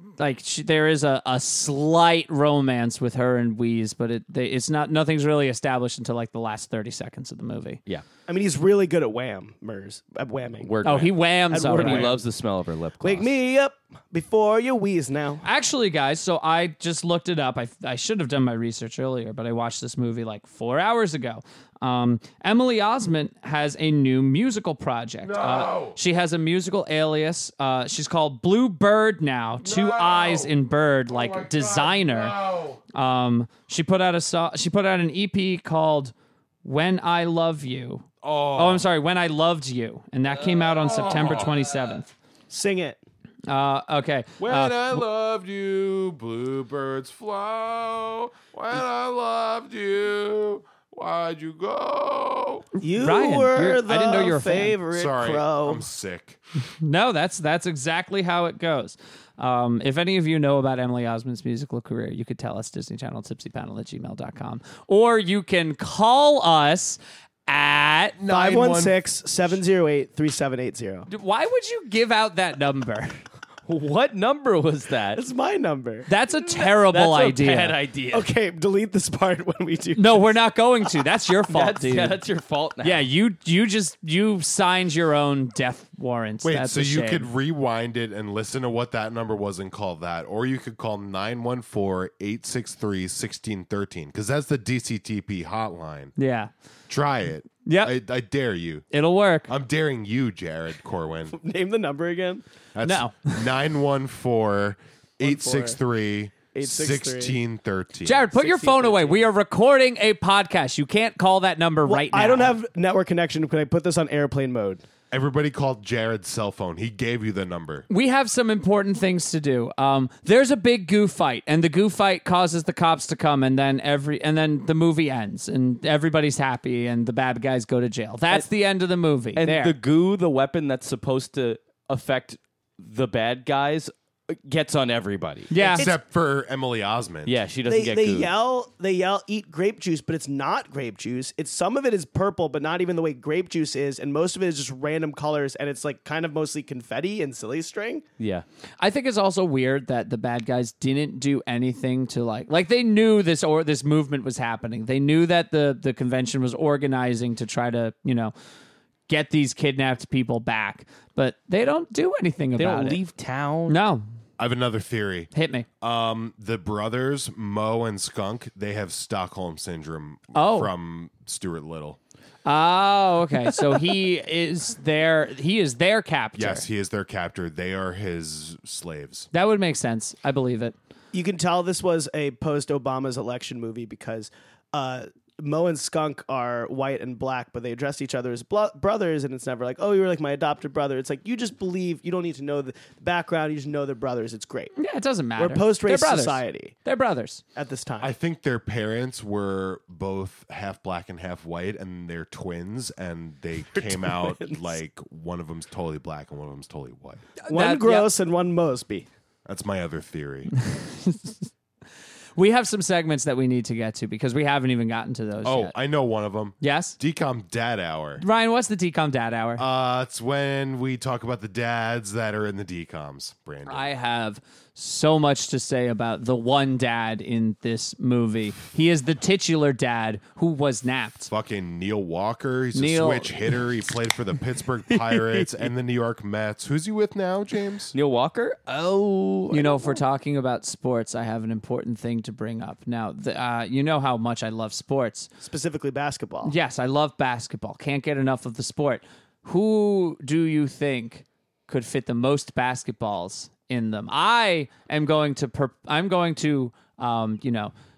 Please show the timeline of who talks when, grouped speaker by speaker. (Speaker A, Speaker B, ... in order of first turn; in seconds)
Speaker A: 0.2-7.8, 10.8-12.2, 15.4-32.4, 32.9-42.1, 43.5-45.0, 53.0-54.8, 56.8-68.2, 71.1-73.2, 76.1-77.8, 79.9-82.2, 82.8-87.3, 96.2-96.5, 97.6-97.9, 98.9-99.5, 102.8-103.5, 108.0-112.5, 117.9-129.8, 135.5-135.9, 148.8-158.3, 159.1-163.0, 163.7-164.0, 165.3-165.7, 170.3-170.7, 172.4-176.7, 179.3-180.7, 194.8-197.4, 207.4-208.1, 210.6-211.3, 212.4-215.7, 216.6-217.0, 218.2-219.6, 223.7-231.3, 232.7-233.6, 239.5-245.3, 246.4-257.7
Speaker B: 8.3-10.7, 11.5-12.2, 13.0-15.4, 42.5-43.0, 52.8-55.8, 68.3-71.1, 75.1-76.1, 78.1-80.3, 101.3-102.4, 105.2-105.8, 106.5-107.3, 108.3-109.3, 111.8-114.8, 135.6-135.9, 137.7-148.0, 181.1-194.7, 195.4-196.7, 197.5-198.1, 203.7-204.7, 207.5-209.1, 245.4-246.5
Speaker C: 10.6-13.3, 73.7-75.2, 76.5-78.3, 81.5-83.0, 129.3-135.5, 137.2-138.3, 148.2-148.4, 162.6-163.8, 237.9-239.9
Speaker D: 25.2-26.0, 29.6-30.5, 31.1-32.8, 38.2-38.9, 40.3-41.8, 44.4-52.7, 54.9-56.4, 68.2-68.9, 86.4-96.1, 96.9-98.9, 99.5-101.3, 102.7-108.2, 115.1-117.9, 135.8-137.4, 164.4-165.3, 165.8-172.0, 176.3-179.3, 198.0-207.2, 209.4-210.5, 215.4-218.2, 219.6-223.9, 231.3-237.9